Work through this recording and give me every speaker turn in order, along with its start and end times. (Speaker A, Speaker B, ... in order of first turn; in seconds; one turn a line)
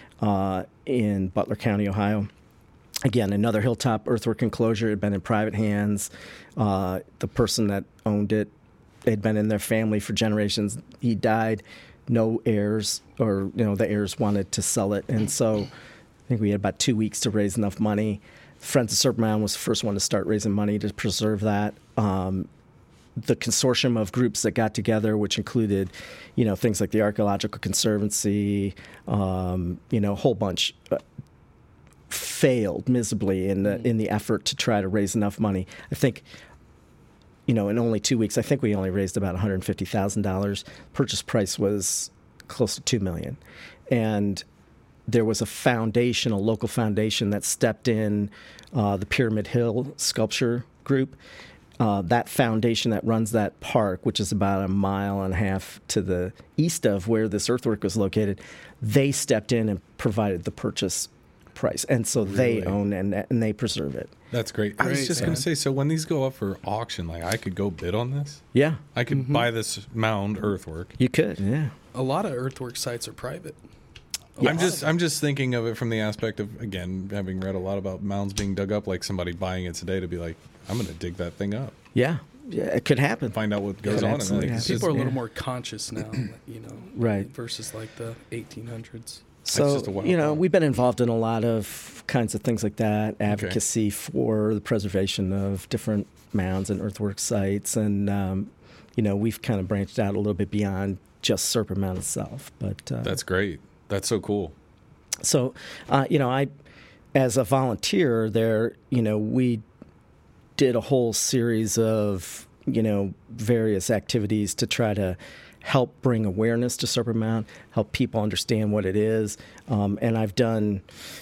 Speaker A: 0.2-2.3
Speaker A: 3.0-8.5
Speaker A: 9.1-15.7
Speaker A: 16.3-22.5
Speaker A: 23.2-31.0
Speaker A: 32.1-36.3
Speaker A: 37.5-44.5
Speaker A: 45.1-51.2
Speaker A: 51.8-64.1
Speaker B: 62.2-62.8
Speaker B: 64.3-71.0
Speaker C: 64.8-65.4
Speaker A: 65.2-65.4
Speaker A: 68.5-69.5
Speaker C: 69.1-69.4
Speaker A: 71.0-71.7
Speaker C: 71.9-73.6
Speaker A: 74.4-74.8
Speaker B: 74.4-81.7
Speaker A: 82.0-85.2
Speaker B: 83.3-85.0
Speaker C: 83.9-89.2
Speaker A: 87.0-87.3
Speaker A: 89.5-103.2
Speaker B: 89.5-90.4
Speaker B: 93.3-93.6
Speaker B: 103.0-104.5
Speaker A: 105.2-106.5
Speaker A: 107.2-109.6
Speaker A: 110.6-120.9